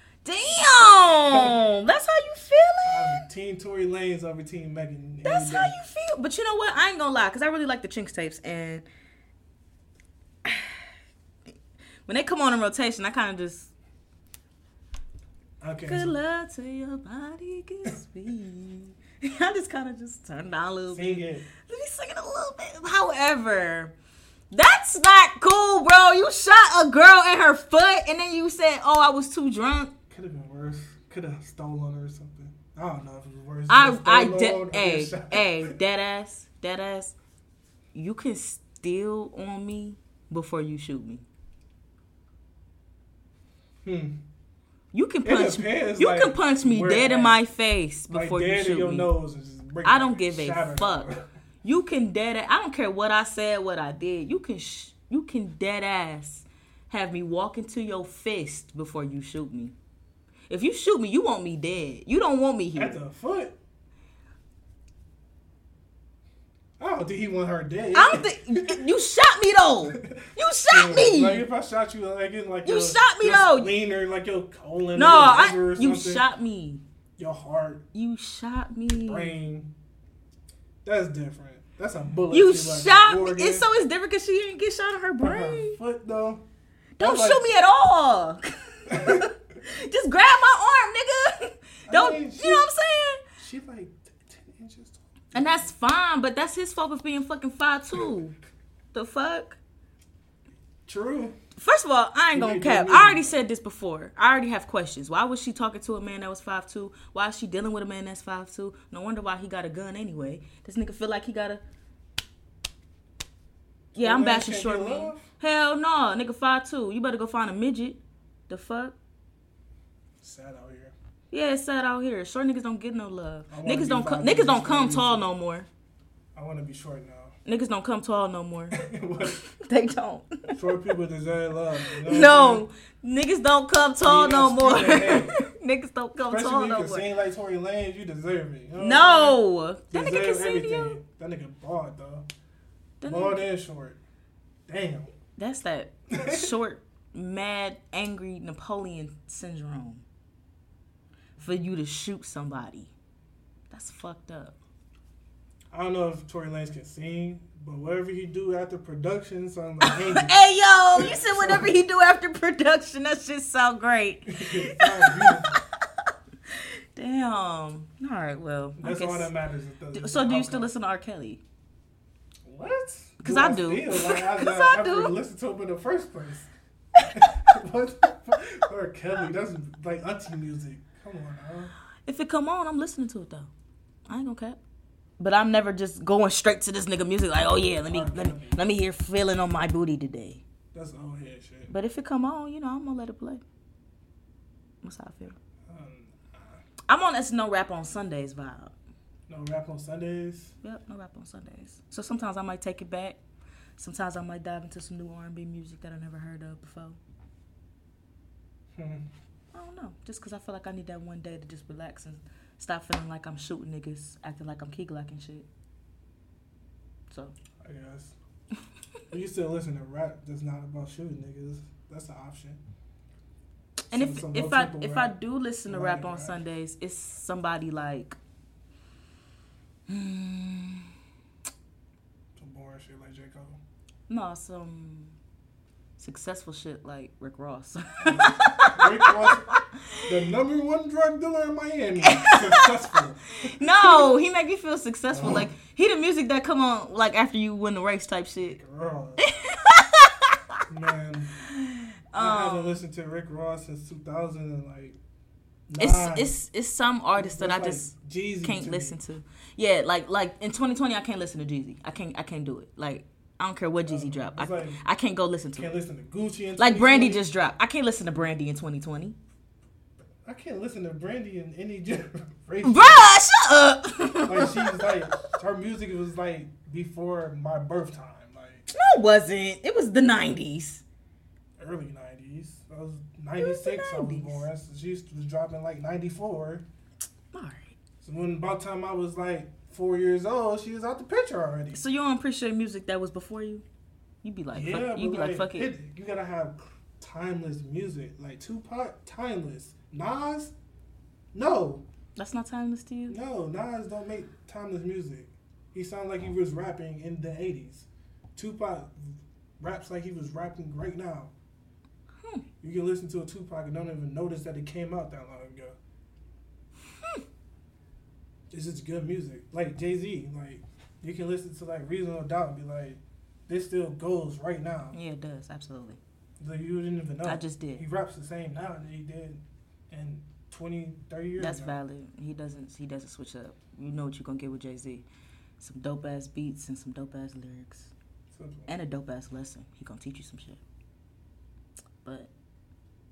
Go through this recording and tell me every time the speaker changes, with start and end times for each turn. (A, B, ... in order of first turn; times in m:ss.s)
0:00.2-0:03.2 A
0:01.3-0:01.6 B
0:02.8-0:05.8 B
0:05.2-0:08.8 A
0:10.4-0:10.9 A
0:12.1-0:13.7 A
0:15.6-0:16.2 B
0:15.9-0:23.9 A
0:20.9-0:21.5 B
0:24.5-0:29.9 A
0:30.1-0:35.8 B
0:33.7-0:37.2 A
0:37.9-0:41.2 A
0:43.8-0:44.2 B
0:44.9-0:49.1 A
0:45.2-0:47.4 B
0:48.1-0:51.3 B
0:49.8-0:51.1 A
0:51.6-0:59.8 A
1:00.5-1:03.0 A
1:02.8-1:03.6 B
1:06.8-1:08.8 B
1:07.9-1:11.5 A
1:09.9-1:16.2 B
1:12.6-1:13.7 A
1:15.0-1:16.8 A
1:17.2-1:17.8 B
1:17.9-1:19.3 A
1:19.0-1:19.7 B
1:20.8-1:23.7 B
1:22.3-1:25.8 A
1:25.2-1:26.4 B
1:27.0-1:33.2 A
1:27.0-1:27.5 B
1:28.9-1:29.3 B
1:31.9-1:32.7 B
1:33.4-1:35.7 B
1:35.3-1:38.4 A
1:38.9-1:39.6 A
1:40.9-1:41.4 B
1:41.6-1:51.6 A
1:42.3-1:43.3 B
1:54.0-1:55.3 B
1:54.0-1:59.0 A
2:00.2-2:01.0 B
2:01.3-2:05.7 A
2:03.5-2:05.2 B
2:06.4-2:07.3 B
2:07.5-2:08.8 A
2:08.7-2:09.4 B
2:09.5-2:10.7 A
2:10.6-2:12.7 B
2:11.9-2:17.1 A
2:14.0-2:15.4 B
2:16.2-2:19.4 B
2:18.8-2:21.0 A
2:19.9-2:22.3 B
2:23.0-2:23.5 A
2:23.0-2:24.0 B
2:24.7-2:25.1 B
2:25.4-2:30.0 A
2:26.1-2:26.5 B
2:31.4-2:32.9 A
2:33.7-2:34.6 A
2:35.7-2:40.3 B
2:39.8-2:45.6 A
2:40.9-2:41.8 B
2:44.3-2:45.6 B
2:46.5-2:49.3 A
2:48.8-2:50.7 B
2:49.9-2:51.4 A
2:52.5-2:56.5 B
2:53.2-2:55.1 A
2:57.0-3:01.7 B
3:02.1-3:03.5 A
3:04.1-3:04.6 A
3:05.2-3:10.4 A
3:07.8-3:08.6 B
3:10.7-3:11.7 B
3:11.7-3:13.4 A
3:14.8-3:15.4 A
3:15.7-3:16.6 B
3:16.9-3:18.7 A
3:19.3-3:20.6 B
3:20.6-3:23.2 A
3:23.8-3:27.0 A
3:28.7-3:29.1 B
3:29.5-3:35.5 A
3:37.6-3:38.2 B
3:39.1-3:42.6 B
3:43.9-3:48.2 A
3:43.9-3:46.4 B
3:49.9-3:50.9 A
3:52.4-3:53.6 B
3:54.1-3:55.2 A
3:56.0-4:00.1 A
3:58.0-3:59.5 B
4:00.0-4:04.1 B
4:02.0-4:08.6 A
4:05.1-4:05.5 B
4:08.4-4:09.3 B
4:09.2-4:10.6 A
4:10.7-4:11.4 B
4:11.4-4:12.8 A
4:12.1-4:15.0 B
4:15.7-4:16.3 B
4:15.8-4:17.9 A
4:17.2-4:19.0 B
4:18.4-4:25.7 A
4:23.9-4:24.8 B
4:25.6-4:27.2 B
4:26.6-4:29.2 A
4:30.2-4:33.1 B
4:32.6-4:35.2 A
4:34.3-4:38.7 B
4:38.7-4:40.8 A
4:41.6-4:46.7 B
4:43.4-4:44.4 A
4:47.3-4:47.8 A
4:48.0-4:51.8 B
4:51.7-4:53.6 A
4:54.2-4:55.7 A
4:54.5-5:00.5 B
5:01.3-5:01.8 B
5:02.2-5:03.2 A
5:03.1-5:11.3 B
5:12.6-5:15.8 B
5:18.5-5:25.0 B
5:24.9-5:26.0 A
5:26.4-5:31.8 B
5:27.2-5:27.8 A
5:31.4-5:35.0 A
5:35.6-5:37.9 A
5:38.3-5:38.7 B
5:38.7-5:40.6 A
5:42.0-5:42.3 A